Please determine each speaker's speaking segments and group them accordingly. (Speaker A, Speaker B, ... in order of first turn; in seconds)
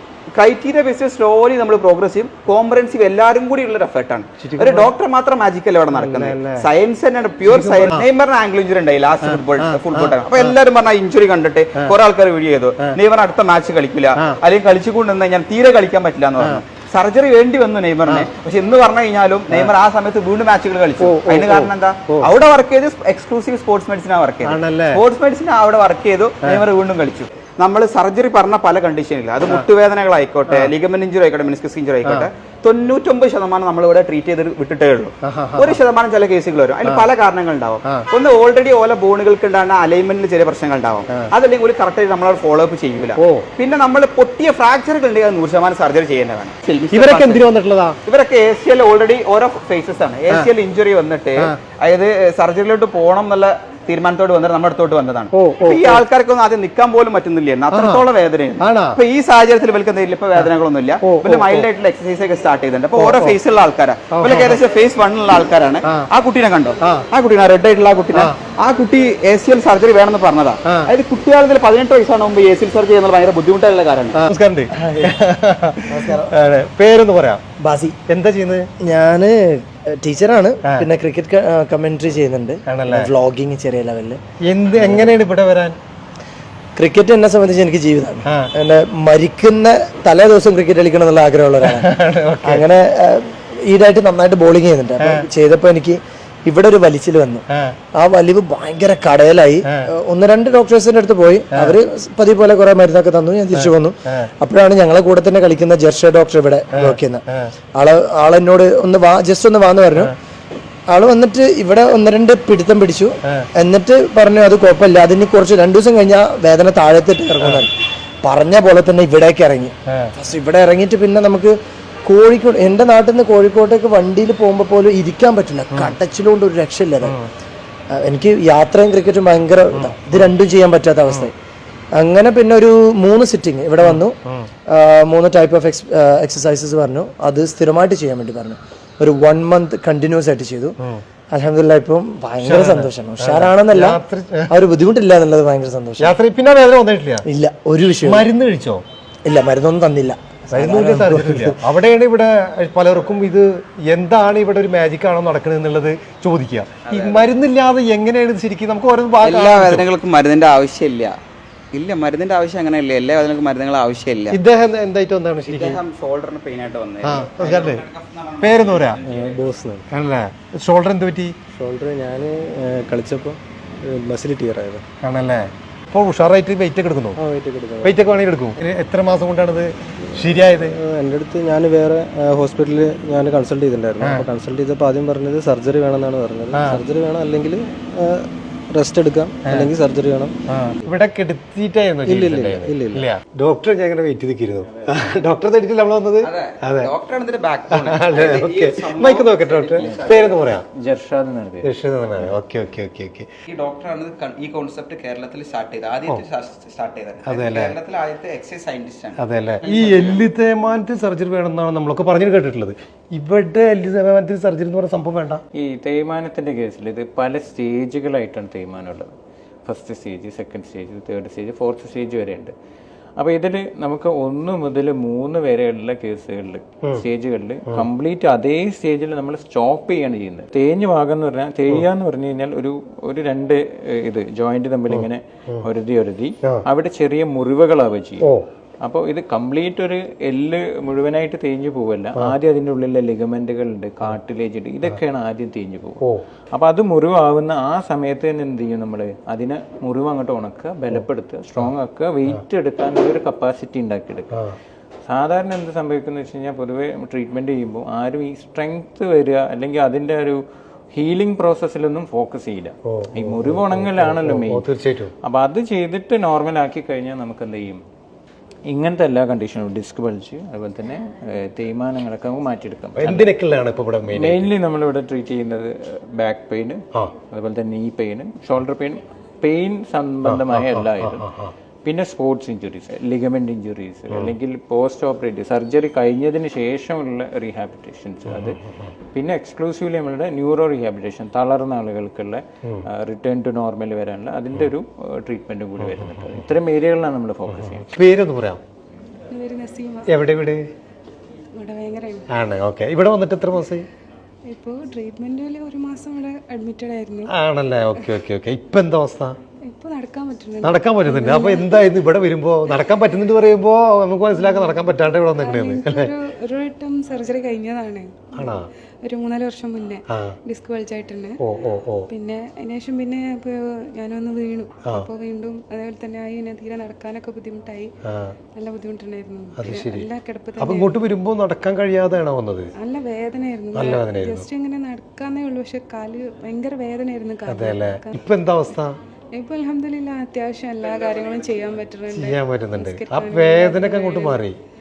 Speaker A: 0.3-47.5, 48.1-74.2, 156.9-157.3, 159.2-161.2, 161.7-164.4, 165.5-169.5, 196.2-200.4, 203.5-210.3
Speaker B: 4.4-4.9, 5.9-6.7, 7.5-8.1, 9.2-10.6, 21.0-22.3, 24.4-25.0, 30.5-30.7, 35.2-35.8, 36.8-37.1, 43.1-43.5, 46.9-48.0, 55.3-56.0, 57.7-58.0, 58.6-59.0, 61.0-61.7, 62.9-63.4, 64.1-64.6, 66.8-67.1, 68.1-68.4, 70.7-70.9, 74.2-77.4, 78.1-78.7, 82.7-83.1, 84.4-85.8, 88.3-88.5, 91.6-92.7, 95.0-95.3, 97.5-97.8, 103.5-104.3, 106.7-107.5, 113.2-113.5, 117.4-117.7, 119.9-120.1, 127.0-127.3, 129.7-130.3, 133.8-134.5, 142.4-144.5, 146.0-147.2, 148.0-148.8, 150.5-159.9, 164.3-165.8, 167.0-167.8, 168.4-169.0, 169.9-171.3, 175.0-177.2, 177.8-180.8, 184.0-184.3, 186.5-186.8, 189.4-189.7, 190.5-196.9, 197.7-200.7, 201.6-203.3, 207.2-207.8, 209.2-215.4, 234.9-235.7, 254.3-254.6, 262.9-265.1, 273.0-274.5, 280.2-281.5, 288.3-288.9, 295.8-296.4, 297.6-298.6, 300.1-300.6, 302.3-303.9, 307.3-309.4, 310.6-316.1, 318.4-318.7, 320.1-320.4, 321.4-322.1, 324.8-325.1, 328.1-328.4, 329.6-330.1, 330.6-332.7, 333.7-334.5, 337.5-339.0, 342.1-344.6
Speaker C: 74.8-75.1, 75.9-76.3, 77.6-78.0, 78.8-84.2, 84.8-85.2, 86.8-91.9, 92.4-107.2, 107.8-110.1, 110.9-117.7, 118.2-127.2, 127.9-131.3, 132.0-134.2, 134.7-140.8, 141.3-146.2, 147.3-148.3, 149.3-151.6
Speaker D: 169.0-169.8, 171.6-174.8, 177.2-178.1, 180.2-190.3, 192.1-193.1
Speaker E: 200.7-201.7, 215.6-219.1, 219.7-222.5, 223.2-238.3, 238.8-246.0, 246.5-254.3, 255.1-260.4, 260.9-264.6, 265.2-267.8, 268.7-273.3, 274.1-281.3, 281.9-288.6, 289.1-297.9
Speaker F: 299.3-300.0, 301.6-302.2, 304.5-307.3, 309.7-310.7, 311.2-311.6, 315.4-318.2, 319.0-321.4, 322.1-327.9, 328.6-330.8, 332.8-338.0, 339.4-344.3